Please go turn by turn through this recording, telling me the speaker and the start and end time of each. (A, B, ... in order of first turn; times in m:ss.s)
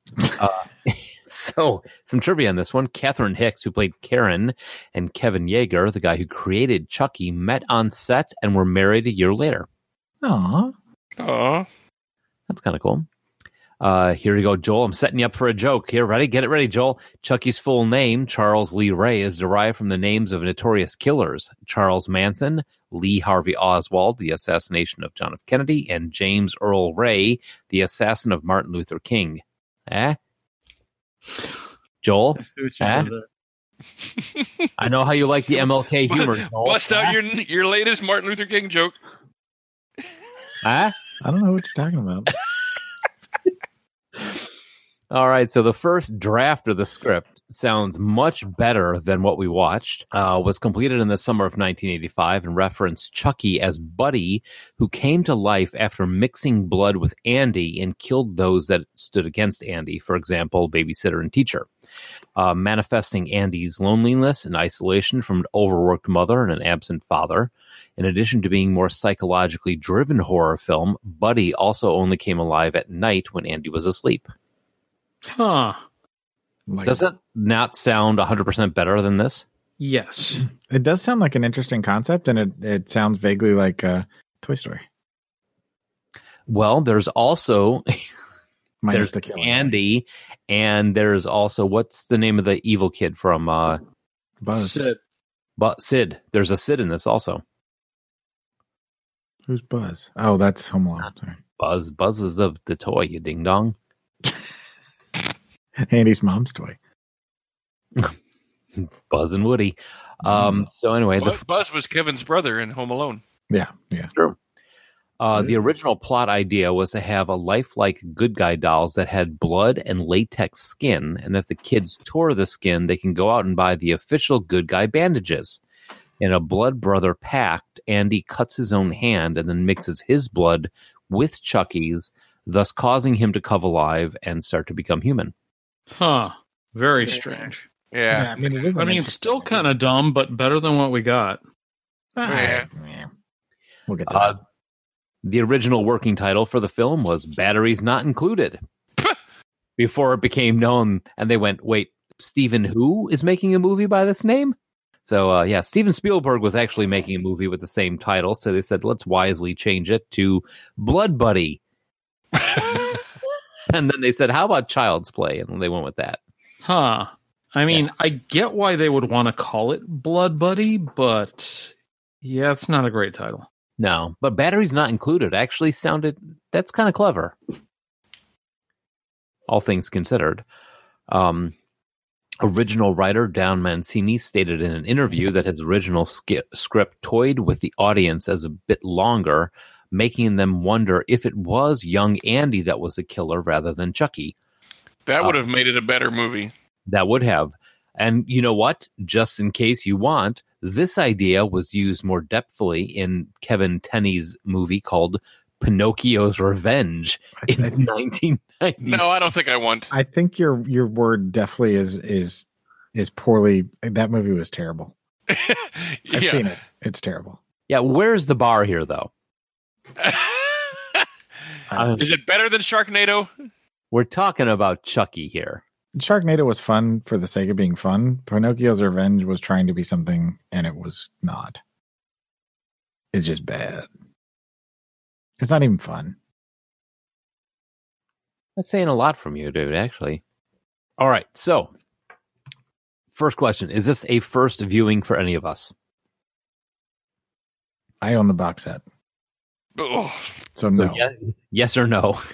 0:00.4-0:09.7 A
0:10.2-0:10.7 B
0:11.2-0:11.7 C
0:12.5-0:13.0 A
0:13.8-0:30.2 A
0:32.0-0:33.1 A
0:32.4-0:33.3 D
0:34.8-0:37.2 A
0:36.0-0:39.0 C
0:40.6-0:40.9 A
0:41.2-0:42.3 B
0:45.1-1:01.7 A
1:02.4-1:14.3 A
1:15.2-1:15.8 D
1:16.7-1:17.0 B
1:16.8-1:19.4 A
1:19.8-1:20.4 D
1:20.6-1:24.8 B
1:26.5-1:28.0 A
1:28.8-1:29.7 B
1:28.9-1:33.8 A
1:34.4-1:34.8 B
1:34.5-1:35.0 D
1:35.6-1:37.4 A
1:39.5-1:41.4 B
1:41.6-1:43.8 A
1:45.8-1:46.8 B
1:48.8-1:51.4 A
1:50.2-1:50.7 B
1:51.2-1:53.2 C
1:53.5-1:54.1 B
1:55.2-2:05.6 A
2:06.2-2:15.3 A
2:16.0-2:17.6 D
2:17.9-2:18.6 C
2:18.1-2:19.6 B
2:18.8-2:21.4 D
2:22.2-2:23.1 B
2:22.2-2:22.7 C
2:23.9-2:24.4 B
2:24.1-2:24.4 A
2:25.2-2:28.6 A
2:29.8-2:41.6 A
2:42.3-2:42.9 C
2:42.6-2:43.0 A
2:43.7-2:46.2 A
2:46.6-2:53.4 D
2:53.8-2:57.3 A
2:59.5-3:00.4 A
3:01.1-3:01.5 A
3:02.4-3:14.3 A
3:15.0-3:16.5 C
3:16.9-3:29.2 A
3:27.4-3:27.9 B
3:28.8-3:29.9 C
3:29.9-3:34.9 B
3:35.3-3:36.4 C
3:36.1-3:37.4 B
3:37.7-3:39.1 A
3:40.0-3:41.0 C
3:41.7-3:42.0 B
3:41.8-3:42.1 A
3:42.0-3:43.3 C
3:43.9-3:45.6 A
3:45.9-3:51.6 B
3:53.1-3:53.9 B
3:55.4-3:56.2 B
3:58.6-4:00.2 A
4:01.0-4:01.7 A
4:03.1-4:05.7 A
4:08.0-4:08.8 B
4:09.8-4:10.4 C
4:10.6-4:11.0 B
4:10.8-4:12.2 A